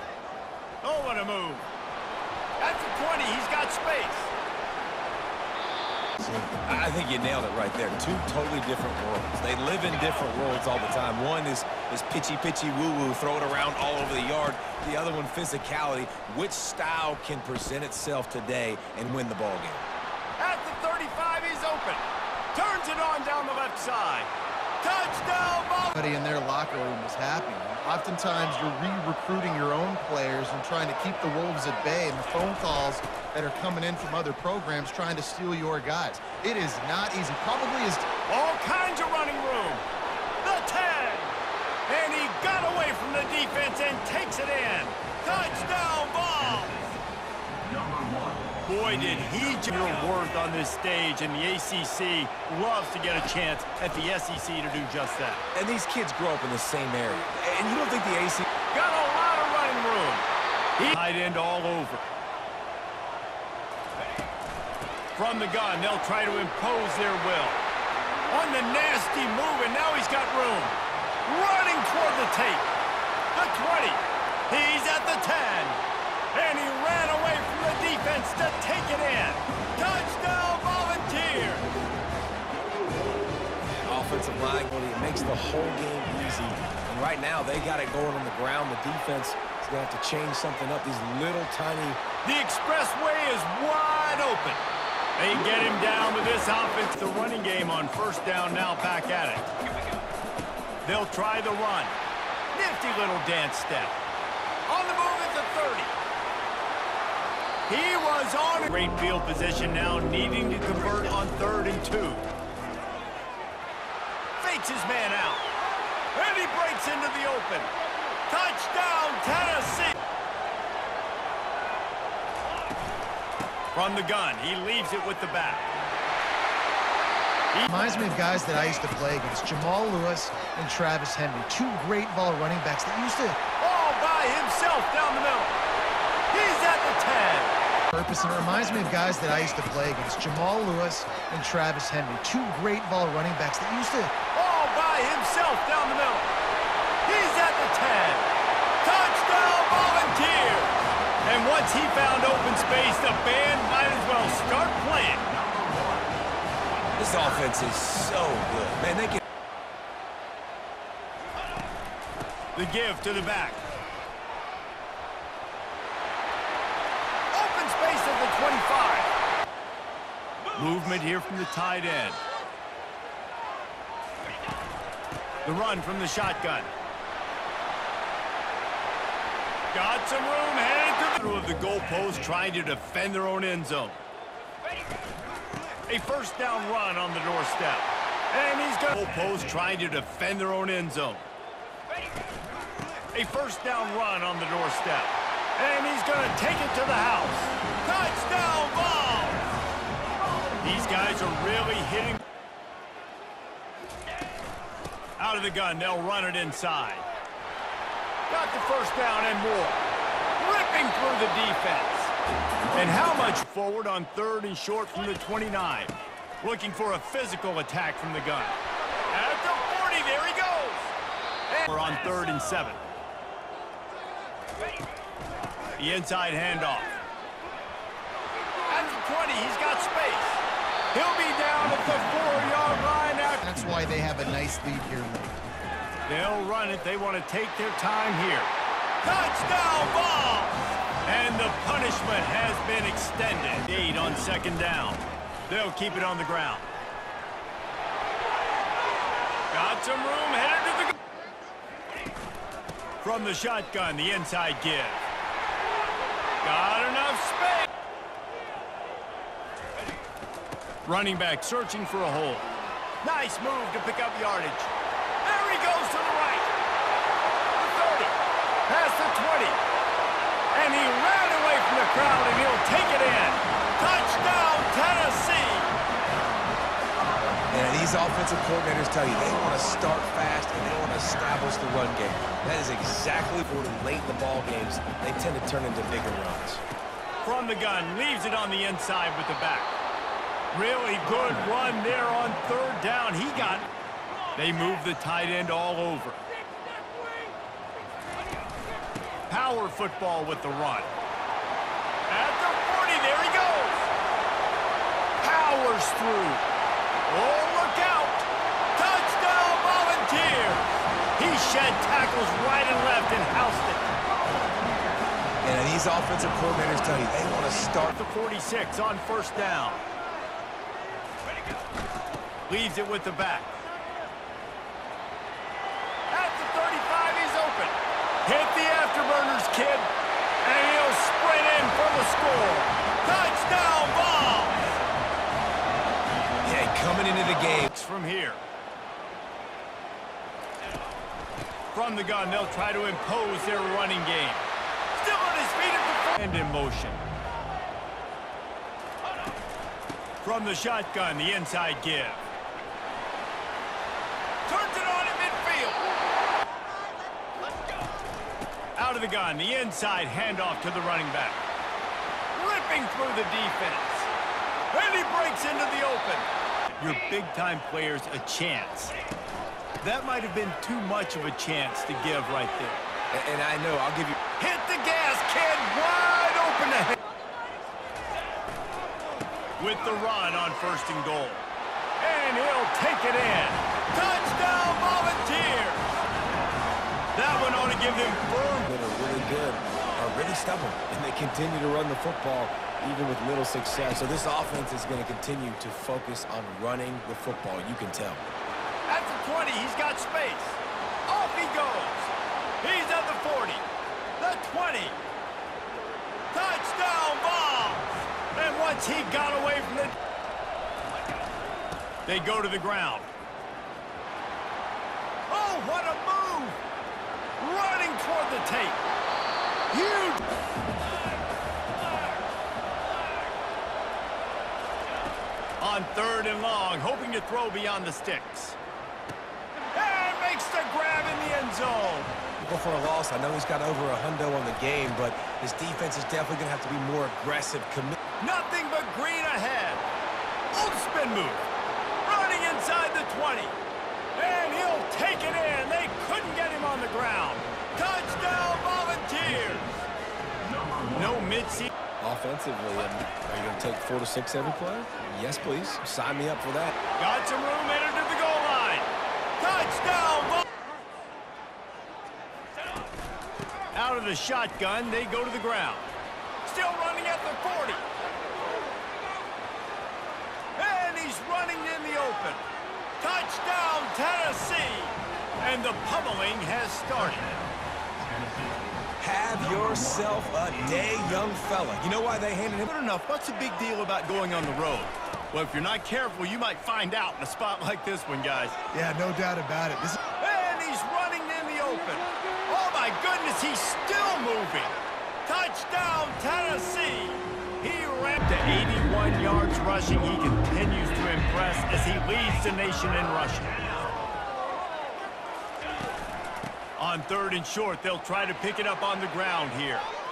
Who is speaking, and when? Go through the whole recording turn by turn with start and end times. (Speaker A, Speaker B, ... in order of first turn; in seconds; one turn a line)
Speaker A: 0.8-1.7
Speaker A: 2.6-4.3
Speaker B: 6.2-19.9
Speaker A: 20.4-22.0
Speaker A: 22.5-26.0
Speaker C: 25.9-38.1
Speaker A: 38.3-39.8
Speaker A: 40.4-41.4
Speaker A: 41.9-47.0
Speaker A: 48.6-55.4
Speaker B: 55.5-58.5
Speaker A: 58.7-60.3
Speaker A: 60.8-62.0
Speaker A: 65.1-67.6
Speaker A: 68.3-72.7
Speaker A: 73.3-75.8
Speaker A: 76.3-81.7
Speaker B: 83.8-92.0
Speaker A: 92.2-94.7
Speaker A: 95.2-99.5
Speaker A: 100.8-102.0
Speaker A: 102.5-104.0
Speaker A: 104.7-105.9
Speaker A: 107.7-112.3
Speaker A: 114.4-115.5
Speaker A: 116.1-117.7
Speaker A: 118.3-120.0
Speaker A: 123.7-125.7
Speaker C: 127.7-133.4
Speaker A: 133.6-135.6
Speaker A: 136.3-137.5
Speaker C: 137.9-144.1
Speaker A: 144.3-146.3
Speaker A: 147.1-148.3
Speaker A: 148.8-150.7
Speaker A: 151.2-155.3
Speaker B: 157.0-159.2
Speaker A: 162.6-163.6
Speaker A: 167.3-169.1
Speaker A: 170.5-172.2
Speaker A: 175.4-176.7
Speaker A: 179.7-184.0
Speaker A: 185.9-191.3
Speaker A: 193.1-199.5
Speaker A: 200.6-202.2
Speaker A: 205.2-207.1
Speaker A: 208.3-209.8
Speaker A: 210.4-212.1
Speaker A: 212.7-218.6
Speaker A: 219.1-220.9
Speaker A: 221.5-222.8
Speaker A: 225.8-227.0
Speaker A: 228.7-233.6
Speaker C: 233.4-235.4
Speaker A: 236.1-246.7
Speaker A: 249.5-251.0
Speaker A: 253.0-255.0
Speaker A: 256.4-257.7
Speaker A: 260.9-262.5
Speaker A: 263.0-264.7
Speaker A: 265.2-266.5
Speaker A: 267.6-268.2
Speaker A: 268.7-269.6
Speaker A: 270.5-275.8
Speaker B: 277.5-286.6
Speaker A: 287.2-289.7
Speaker A: 290.5-293.7
Speaker A: 294.4-296.2
Speaker A: 299.3-300.9
Speaker A: 302.1-303.9
Speaker A: 305.2-306.5
Speaker A: 307.1-313.9
Speaker B: 315.4-317.9
Speaker A: 317.8-319.9
Speaker A: 322.5-323.5
Speaker A: 326.1-329.9
Speaker A: 330.4-334.8
Speaker B: 336.4-337.7
Speaker A: 337.7-338.4
Speaker A: 341.7-347.0
Speaker A: 350.2-352.2
Speaker A: 354.5-355.8
Speaker A: 358.8-361.4
Speaker A: 362.3-364.1
Speaker A: 364.7-368.9
Speaker A: 369.8-372.8
Speaker B: 373.1-374.1
Speaker A: 374.4-377.0
Speaker A: 379.6-381.5
Speaker A: 382.0-385.9
Speaker A: 387.1-388.7
Speaker B: 388.7-398.2
Speaker A: 398.9-403.6
Speaker A: 404.2-405.0
Speaker A: 406.3-410.0
Speaker A: 412.1-413.1
Speaker A: 415.3-416.6
Speaker A: 417.4-418.8
Speaker A: 419.7-420.2
Speaker A: 425.6-428.6
Speaker A: 429.7-432.1
Speaker B: 432.4-438.0
Speaker A: 438.2-439.8
Speaker A: 440.5-441.5
Speaker A: 442.0-443.6
Speaker A: 444.1-449.8
Speaker A: 450.8-451.7
Speaker B: 452.0-456.8
Speaker A: 457.0-460.5
Speaker A: 463.7-465.9
Speaker A: 466.4-467.9
Speaker A: 470.6-472.4
Speaker A: 473.0-477.4
Speaker B: 479.0-482.6
Speaker A: 482.6-488.6
Speaker C: 488.7-490.0
Speaker A: 490.2-503.7
Speaker A: 506.8-509.9